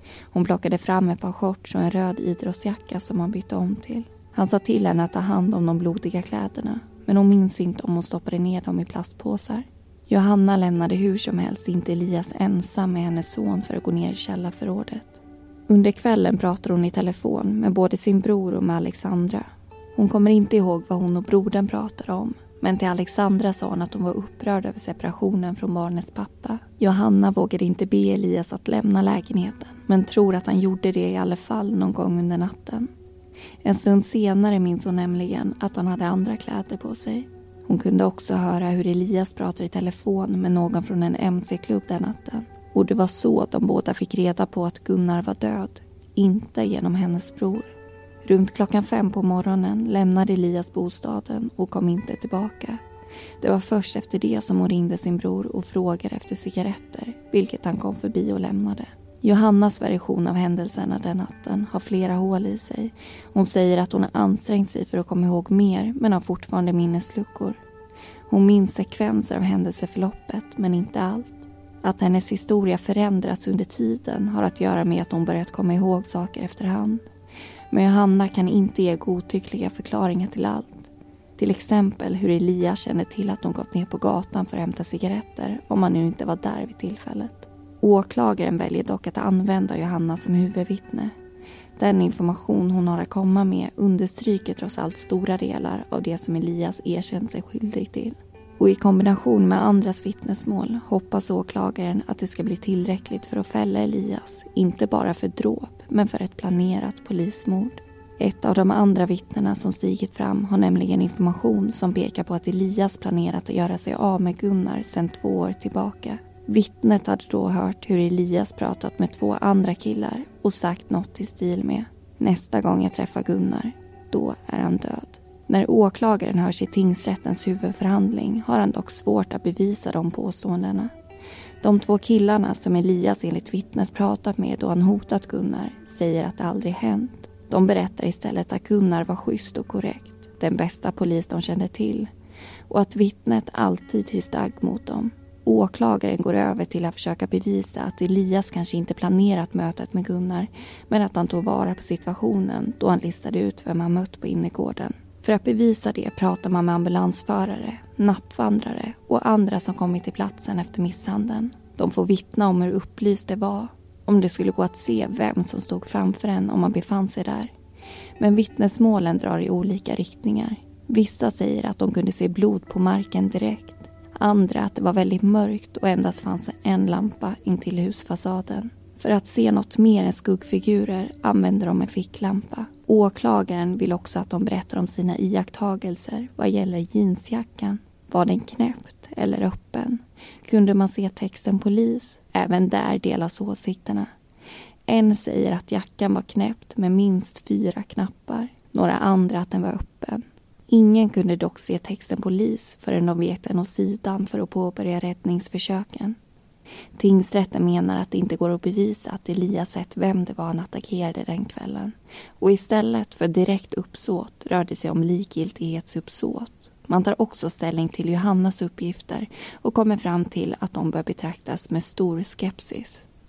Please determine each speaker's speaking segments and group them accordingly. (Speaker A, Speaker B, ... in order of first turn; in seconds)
Speaker A: 0.3-32.9, 33.6-47.7, 48.2-52.8, 53.4-67.6, 68.3-77.0, 77.7-91.1, 91.8-130.9, 131.6-142.1, 142.7-167.5, 168.2-194.1, 194.9-206.2, 206.9-223.1